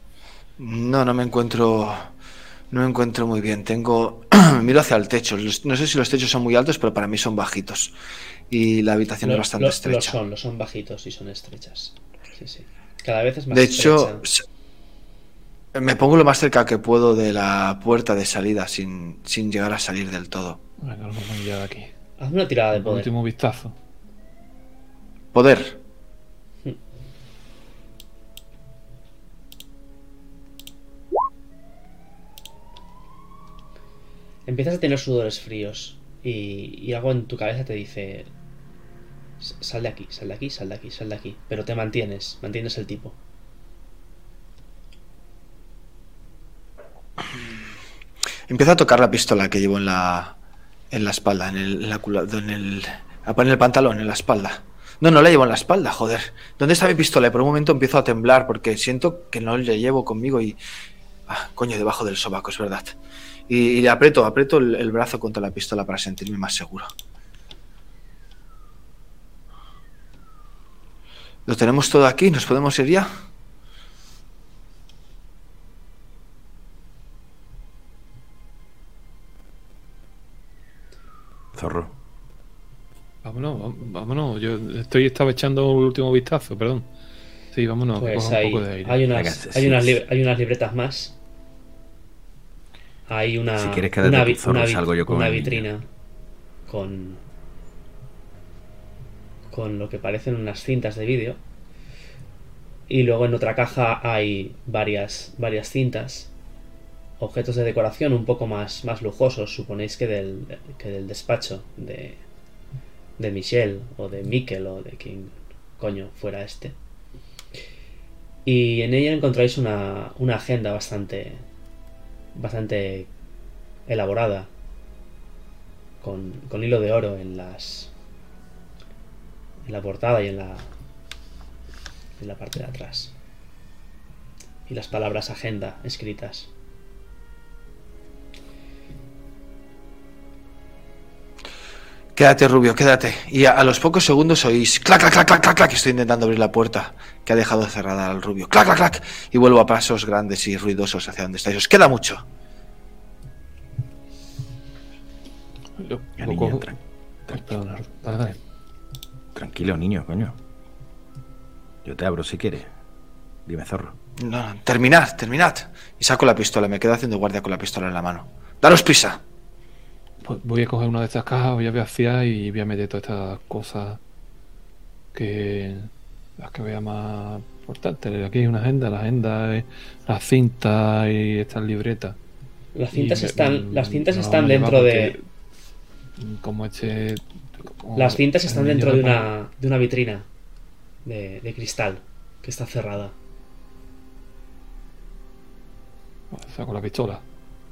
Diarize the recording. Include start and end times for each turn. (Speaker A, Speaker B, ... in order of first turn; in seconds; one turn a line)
Speaker A: 0.6-2.1
Speaker A: 2.7-7.9
Speaker A: 8.5-10.2
Speaker B: 9.2-14.2
Speaker A: 13.5-14.4
Speaker A: 15.7-20.6
Speaker C: 20.8-21.9
Speaker B: 22.2-23.1
Speaker C: 22.7-23.8
Speaker A: 25.3-25.8
Speaker B: 34.5-38.3
Speaker B: 39.4-43.2
Speaker A: 48.5-50.4
Speaker A: 50.9-60.6
Speaker A: 61.3-63.0
Speaker A: 63.5-66.9
Speaker A: 71.5-73.1
Speaker D: 81.5-82.0
Speaker C: 83.2-86.9
Speaker C: 87.5-89.1
Speaker B: 88.0-91.2
Speaker D: 89.1-90.0
Speaker B: 93.1-95.9
Speaker D: 93.6-95.7
Speaker B: 96.7-97.2
Speaker B: 99.5-101.4
Speaker B: 102.9-106.3
Speaker B: 107.2-112.2
Speaker B: 113.2-116.8
Speaker B: 118.5-121.4
Speaker B: 122.3-123.1
Speaker B: 123.9-124.5
Speaker B: 126.0-127.9
Speaker B: 129.7-130.7
Speaker B: 132.2-133.1
Speaker B: 134.7-136.5
Speaker A: 142.2-152.2
Speaker C: 155.8-156.7
Speaker D: 156.2-156.8
Speaker C: 157.3-158.4
Speaker D: 159.3-160.4
Speaker D: 161.8-162.7
Speaker D: 163.5-164.0
Speaker A: 164.2-169.2
Speaker C: 170.2-174.0
Speaker C: 175.1-182.2
Speaker B: 182.8-185.2
Speaker C: 182.9-185.3
Speaker C: 186.2-189.3
Speaker B: 188.0-190.3
Speaker B: 191.1-193.2
Speaker C: 196.3-197.2